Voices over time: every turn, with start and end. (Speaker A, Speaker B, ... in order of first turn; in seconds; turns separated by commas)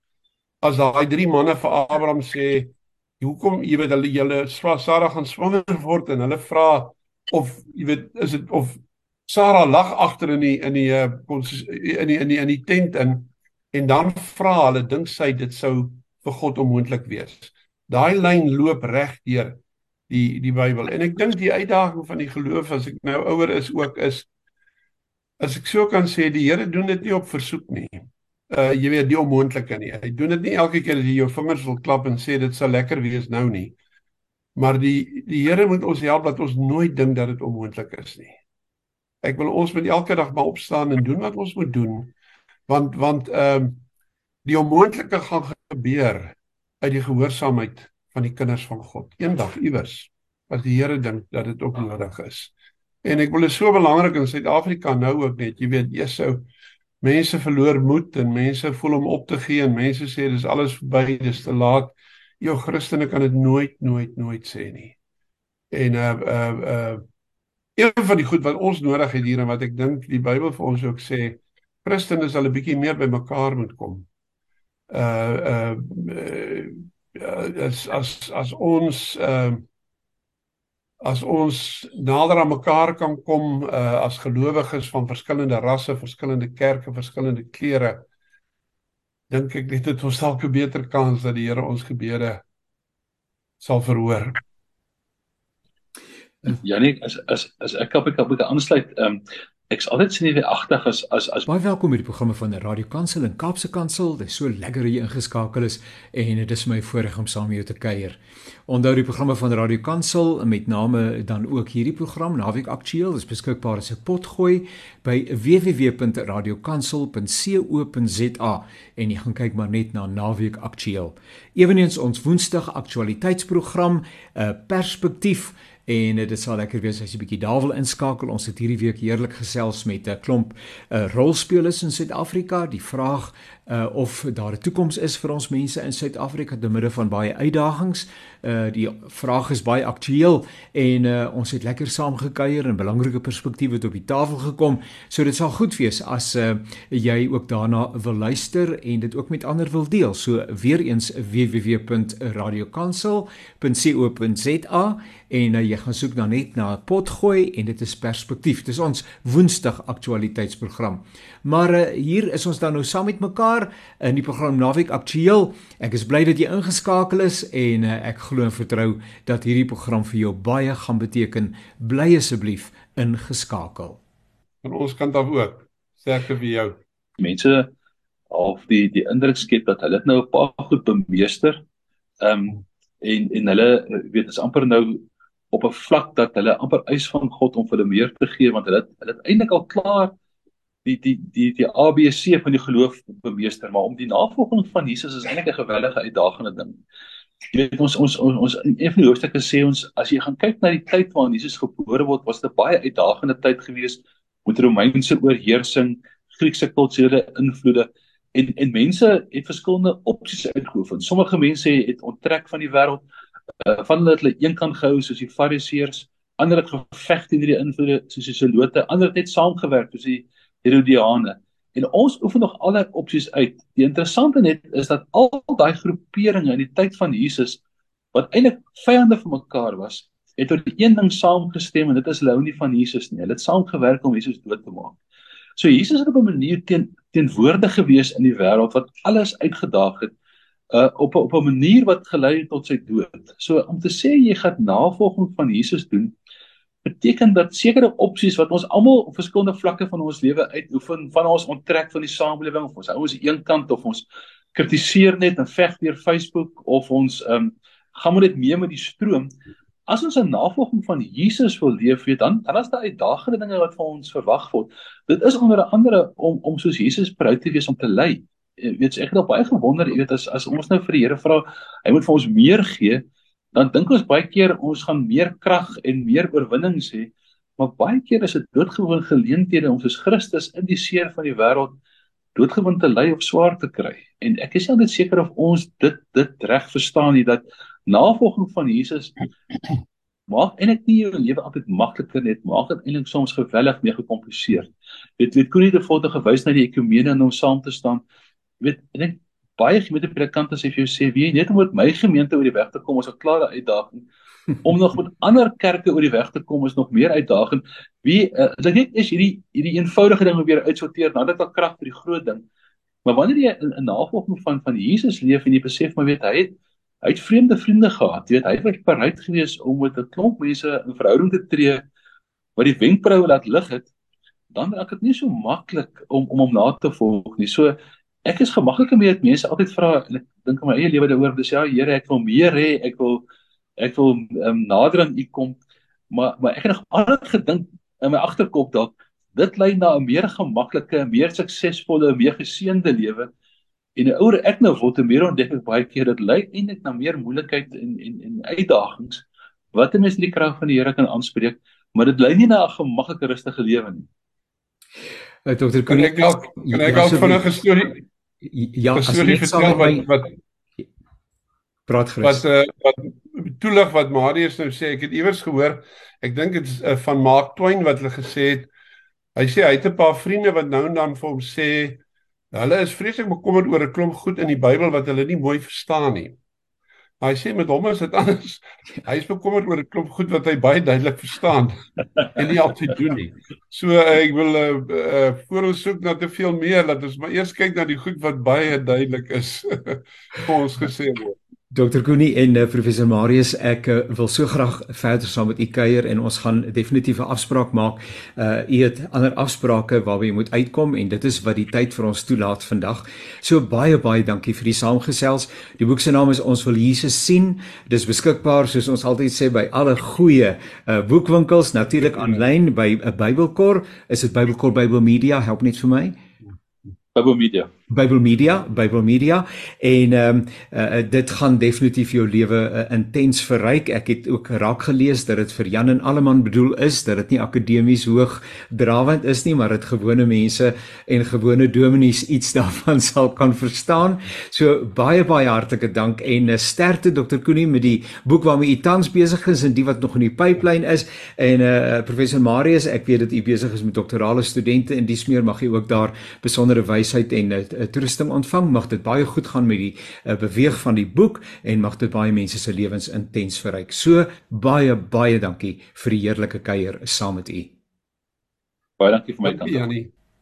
Speaker A: 0.6-24.3, Speaker A: 25.4-33.8, Speaker A: 34.6-38.4, Speaker A: 39.2-42.1, Speaker A: 42.7-43.8, Speaker A: 44.5-52.5, Speaker A: 53.0-56.5, Speaker A: 57.0-65.0, Speaker A: 65.7-67.0, Speaker A: 67.8-74.1, Speaker A: 74.9-79.7, Speaker A: 81.0-88.1, Speaker A: 89.3-92.4, Speaker A: 93.6-94.4, Speaker B: 96.5-101.5, Speaker C: 101.5-174.0, Speaker A: 174.6-176.8, Speaker B: 177.2-177.7, Speaker B: 178.3-181.6, Speaker B: 182.2-190.1, Speaker B: 190.8-196.8, Speaker B: 197.5-213.0, Speaker B: 213.6-227.6, Speaker B: 228.1-235.0, Speaker B: 235.6-240.1, Speaker B: 240.7-246.2, Speaker B: 246.8-259.3, Speaker B: 259.9-281.8, Speaker B: 282.4-289.3, Speaker B: 290.3-298.0, Speaker B: 298.6-304.1, Speaker B: 304.6-312.4, Speaker B: 313.1-321.9, Speaker B: 322.6-323.9, Speaker B: 324.5-327.7, Speaker B: 328.3-333.2, Speaker B: 333.8-335.6, Speaker B: 336.1-343.3, Speaker B: 344.0-354.1, Speaker C: 355.4-357.5, Speaker A: 355.9-358.0, Speaker C: 358.4-360.1, Speaker A: 358.9-360.3, Speaker C: 361.9-362.5, Speaker A: 362.2-368.7, Speaker A: 369.4-376.4, Speaker A: 377.2-381.8, Speaker A: 382.4-391.4, Speaker C: 391.7-416.2, Speaker A: 412.0-412.4, Speaker B: 417.1-417.7, Speaker C: 417.9-457.7, Speaker B: 459.0-459.9, Speaker A: 459.4-460.1